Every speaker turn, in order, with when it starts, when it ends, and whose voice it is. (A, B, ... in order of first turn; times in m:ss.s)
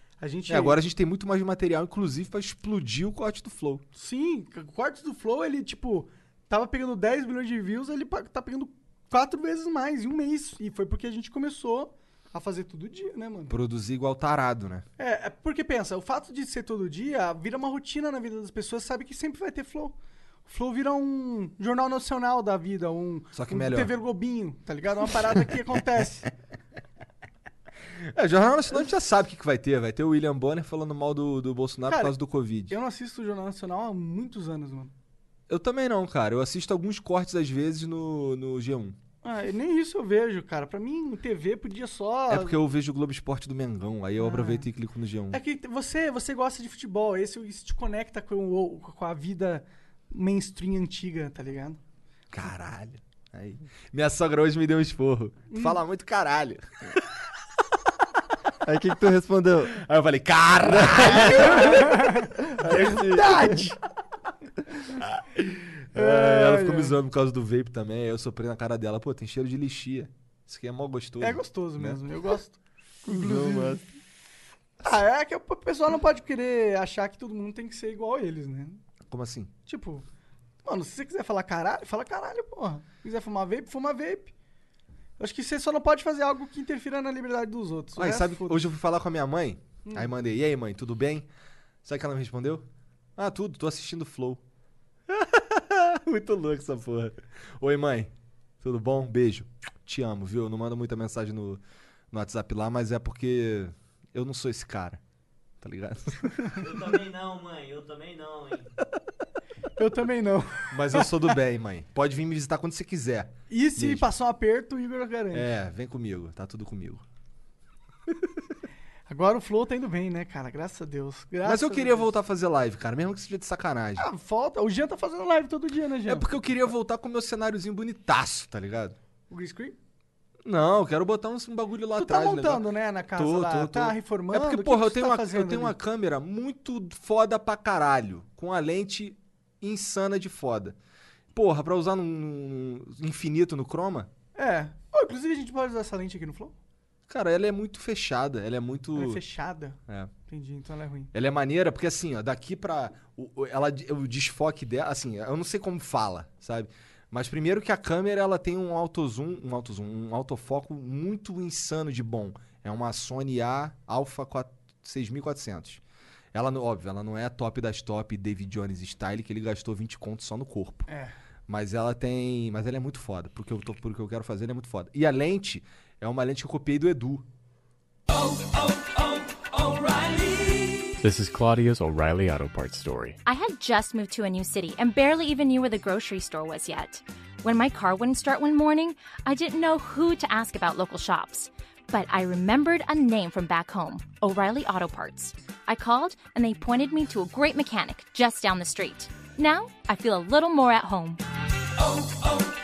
0:00.2-0:00.8 A
0:00.5-0:03.8 B
0:03.9-0:13.6 A
0:13.5-0:14.8 B
0:15.0-0:26.3 A
0:23.3-0:23.9 B
0:28.0-0:32.7 B
0:31.9-0:32.1 A
0:32.7-0:34.9 A
0:35.5-0:39.0 B
0:39.2-0:42.6 A
0:42.3-0:45.4 B
0:44.2-0:44.7 A
0:45.3-0:51.8 A
0:52.3-0:57.0 B
0:55.5-0:55.8 A
0:58.6-0:59.8 C
0:59.7-1:01.8 B
1:00.6-1:03.6 C
1:01.5-1:03.8 A
1:05.1-1:12.0 B
1:05.9-1:07.0 A
1:11.2-1:13.8 A
1:13.0-1:13.9 C
1:14.8-1:18.8 A
1:19.1-1:19.5 B
1:19.6-1:20.0 A
1:20.6-1:24.3 A
1:25.2-1:28.7 A
1:27.9-1:31.3 B
1:31.8-1:32.6 B
1:33.2-1:34.4 B
1:35.1-1:45.0 B
1:45.6-1:46.4 B
1:46.6-1:48.7 D
1:49.8-1:51.1 A
1:50.7-1:54.1 B
1:53.5-1:55.5 A
1:55.3-1:57.0 B
1:59.1-2:02.1 A
2:01.4-2:04.1 B
2:04.0-2:06.3 A
2:06.0-2:09.0 B
2:09.3-2:09.8 A
2:10.4-2:20.8 B
2:12.0-2:15.8 A
2:21.3-2:24.1 B
2:24.4-2:26.5 A
2:27.1-2:29.2 B
2:28.9-2:31.1 A
2:31.1-2:45.8 B
2:46.3-2:50.8 B
2:50.9-2:51.1 A
2:51.5-2:57.2 B
2:59.7-3:00.4 A
3:01.0-3:03.2 E
3:03.2-3:21.2 F